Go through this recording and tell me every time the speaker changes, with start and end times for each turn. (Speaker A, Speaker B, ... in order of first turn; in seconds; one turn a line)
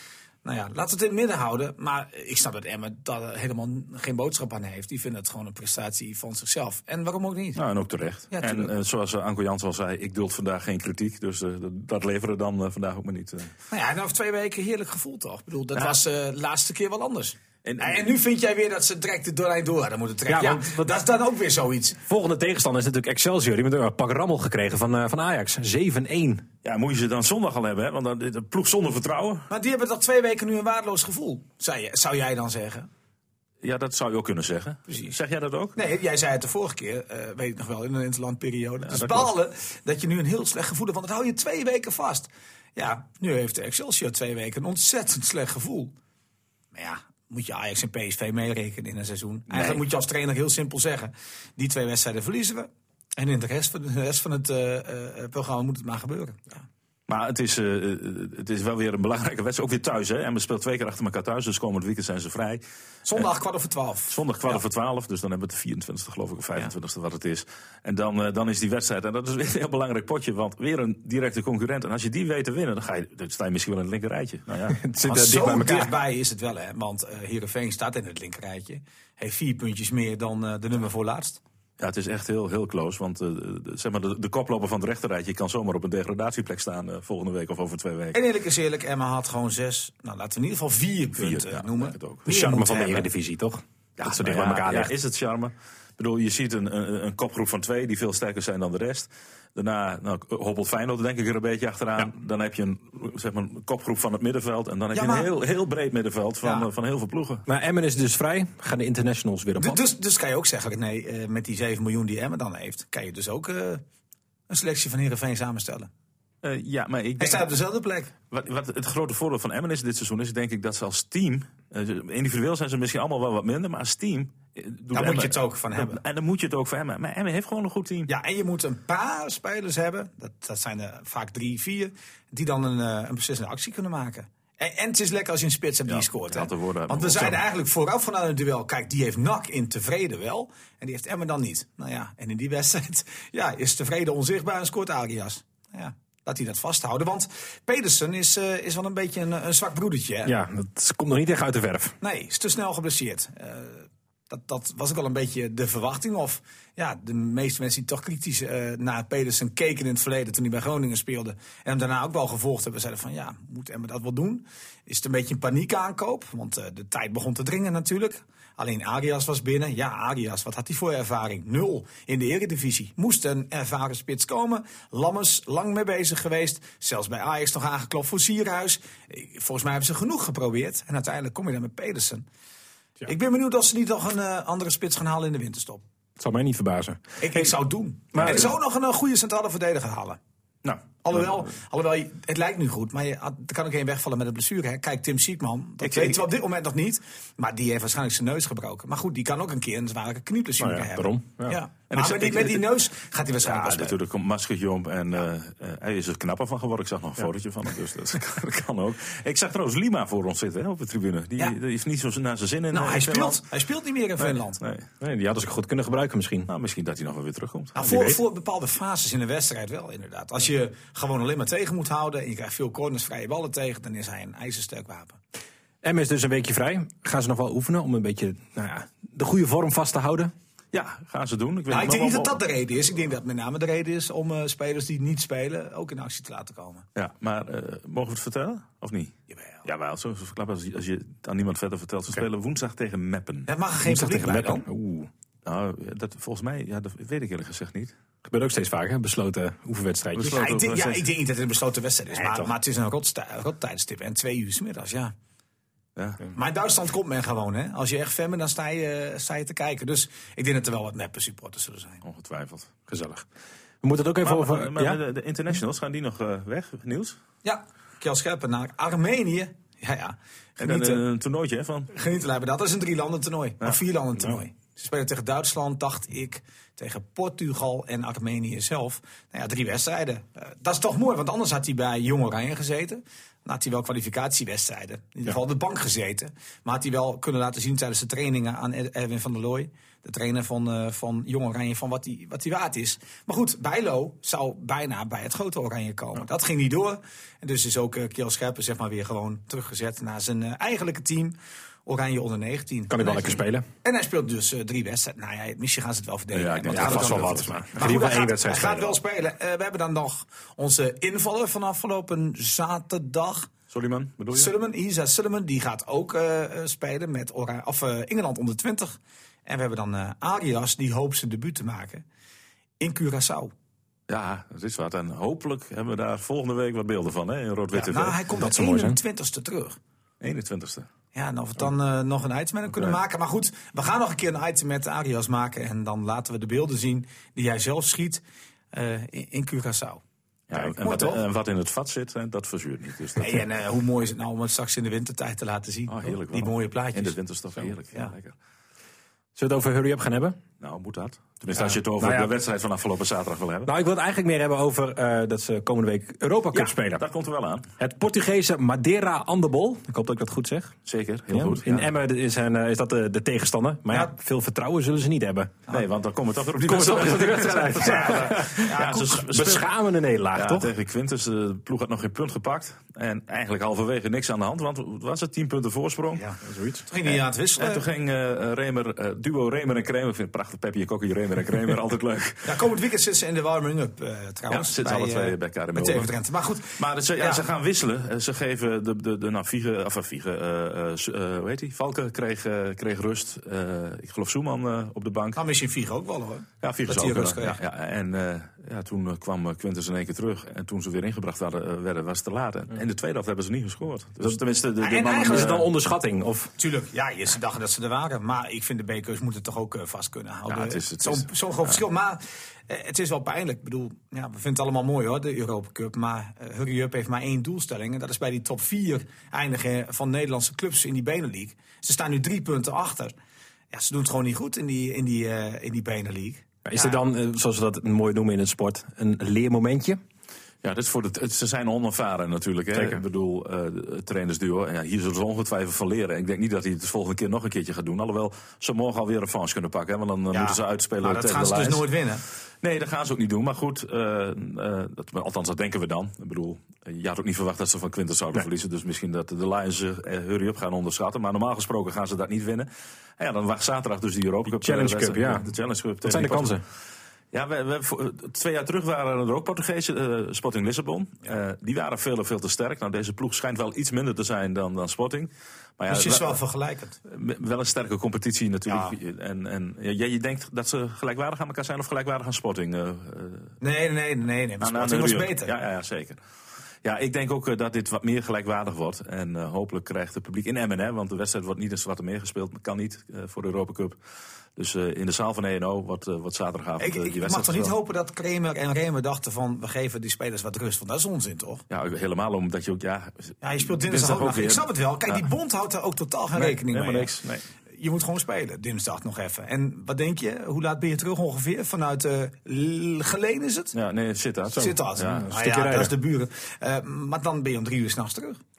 Speaker A: 0.4-7.6
Speaker B: 7.5-13.5
Speaker A: 8.3-8.7
Speaker A: 13.7-22.0
Speaker B: 17.6-18.1
Speaker C: 20.3-20.7
Speaker C: 22.1-26.5
Speaker B: 26.6-29.5
Speaker A: 29.5-32.9
Speaker B: 33.6-35.8
Speaker A: 34.9-35.2
Speaker A: 35.8-46.0
Speaker B: 38.9-39.3
Speaker A: 46.7-56.7
Speaker C: 49.5-49.8
Speaker B: 57.1-62.6
Speaker A: 63.1-64.5
Speaker B: 64.1-74.8
Speaker C: 74.7-75.9
Speaker A: 75.0-81.4
Speaker B: 81.8-88.2
Speaker A: 88.1-93.1
Speaker B: 91.1-92.2
Speaker C: 92.3-94.9
Speaker B: 94.0-107.5
Speaker A: 104.9-105.3
Speaker A: 106.4-106.7
Speaker C: 107.5-109.8
Speaker A: 109.6-113.8
Speaker A: 114.5-115.9
Speaker B: 116.4-117.5
Speaker A: 117.2-118.1
Speaker B: 118.3-128.1
Speaker A: 124.9-126.0
Speaker A: 128.1-150.3
Speaker B: 135.9-137.4
Speaker C: 150.2-151.9
Speaker A: 152.0-182.2
Speaker A: 183.1-185.8
Speaker C: 186.2-187.5
Speaker A: 187.2-190.2
Speaker C: 188.1-188.5
Speaker B: 190.6-191.2
Speaker A: 191.0-204.0
Speaker B: 195.8-196.2
Speaker C: 200.6-201.6
Speaker B: 201.9-202.7
Speaker B: 203.4-213.4
Speaker A: 212.7-214.6
Speaker B: 214.2-214.9
Speaker C: 215.0-216.5
Speaker B: 216.5-217.8
Speaker A: 217.8-225.2
Speaker C: 217.8-218.2
Speaker C: 225.8-230.3
Speaker B: 230.7-232.4
Speaker A: 231.7-236.9
Speaker B: 236.9-243.5
Speaker A: 239.3-239.6
Speaker A: 243.5-244.7
Speaker C: 243.8-245.1
Speaker B: 245.4-247.9
Speaker C: 248.2-250.4
Speaker B: 250.2-251.1
Speaker A: 250.2-255.1
Speaker C: 252.2-252.5
Speaker B: 256.0-256.2
Speaker A: 256.3-262.0
Speaker B: 262.0-262.7
Speaker C: 262.9-263.3
Speaker C: 263.8-265.0
Speaker B: 264.2-267.2
Speaker A: 267.4-271.0
Speaker B: 270.6-271.9
Speaker A: 271.9-301.4
Speaker A: 301.9-313.5
Speaker C: 302.9-303.7
Speaker B: 306.3-307.7
Speaker C: 306.7-309.0
Speaker B: 313.7-314.5
Speaker A: 314.3-322.0
Speaker A: 322.8-323.5
Speaker B: 324.1-328.2
Speaker A: 327.7-329.8
Speaker C: 328.4-329.0
Speaker B: 330.2-330.9
Speaker A: 331.1-341.2
Speaker B: 332.7-333.0
Speaker B: 340.5-343.5
Speaker A: 343.2-347.2
Speaker B: 345.9-348.4
Speaker C: 349.4-350.4
Speaker B: 350.6-353.7
Speaker C: 351.5-352.3
Speaker C: 353.7-357.0
Speaker B: 356.5-357.7
Speaker C: 357.8-360.8
Speaker B: 360.9-361.9
Speaker C: 361.3-365.6
Speaker B: 365.7-369.7
Speaker C: 366.7-370.7
Speaker A: 367.8-369.2
Speaker B: 370.3-376.3
Speaker A: 376.2-377.9
Speaker C: 376.4-376.9
Speaker B: 377.1-382.6
Speaker A: 382.4-387.4
Speaker B: 384.5-386.1
Speaker B: 386.8-395.4
Speaker A: 395.4-397.6
Speaker B: 396.6-405.7
Speaker A: 404.8-405.6
Speaker C: 405.3-406.5
Speaker A: 406.6-423.1
Speaker B: 410.5-411.8
Speaker A: 423.7-427.0
Speaker C: 426.6-430.0
Speaker B: 430.6-441.9
Speaker C: 432.8-433.0
Speaker A: 440.3-442.2
Speaker B: 442.6-456.6
Speaker C: 454.5-455.5
Speaker C: 456.0-456.6
Speaker B: 457.3-466.4
Speaker A: 465.9-467.0
Speaker B: 467.1-473.5
Speaker A: 468.7-468.9
Speaker A: 473.6-475.5
Speaker B: 474.6-476.2
Speaker B: 476.8-484.0
Speaker B: 484.6-487.7
Speaker A: 486.8-491.6
Speaker B: 491.7-495.2
Speaker A: 493.4-503.8
Speaker B: 496.4-497.4
Speaker B: 503.7-505.3
Speaker C: 504.5-505.9
Speaker A: 504.5-508.4